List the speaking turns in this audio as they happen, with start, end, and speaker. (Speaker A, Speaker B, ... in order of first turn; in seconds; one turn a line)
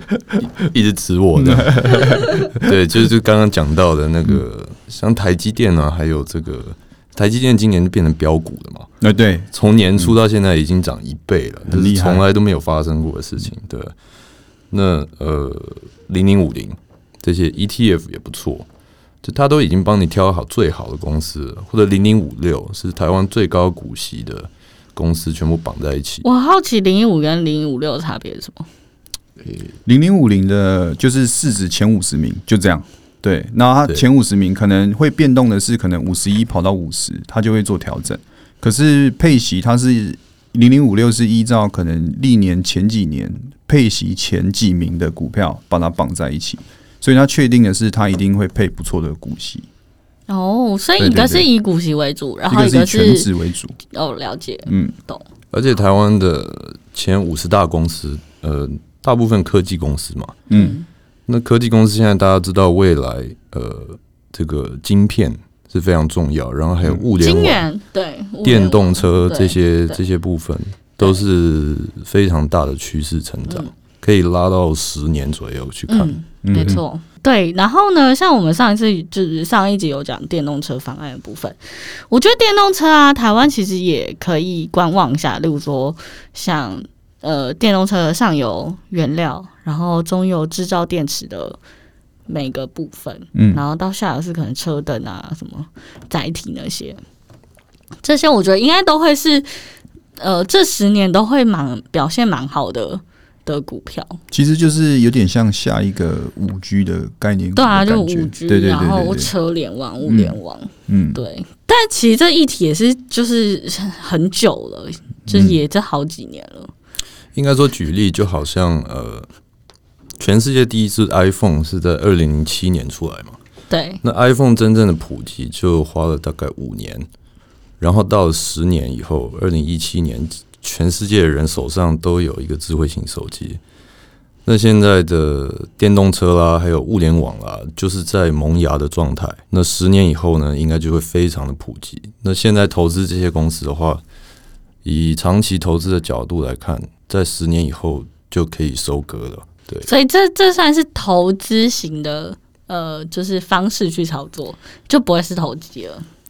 Speaker A: 0.4-8.9
Speaker B: 1.4-2.7
Speaker B: 9.0-10.2
Speaker A: 9.5-13.9
Speaker B: 11.7-12.2
Speaker A: 14.7-18.7
Speaker A: 19.2-26.2
Speaker C: 26.2-28.7
Speaker B: 29.9-49.7
Speaker C: 50.3-53.3
Speaker B: 51.0-51.5
Speaker B: 52.5-53.8
Speaker C: 53.9-55.2
Speaker B: 54.7-55.0
Speaker A: 55.5-60.4
Speaker B: 60.5-60.8
Speaker C: 60.5-60.9
Speaker A: 61.3-67.6
Speaker C: 67.2-70.0
Speaker A: 68.4-76.8
Speaker C: 75.9-91.6
Speaker B: 76.4-76.8
Speaker C: 92.3-97.0
Speaker B: 93.3-93.6
Speaker C: 98.0-99.6
Speaker C: 100.2-104.2
Speaker B: 104.3-109.3
Speaker C: 107.5-116.7
Speaker B: 110.0-110.4
Speaker B: 110.9-111.2
Speaker B: 115.3-115.6
Speaker A: 117.3-119.3
Speaker A: 120.2-123.4
Speaker C: 123.7-124.0
Speaker A: 124.0-127.1
Speaker A: 127.8-133.6
Speaker A: 134.5-144.0
Speaker A: 144.8-149.9
Speaker C: 149.8-156.1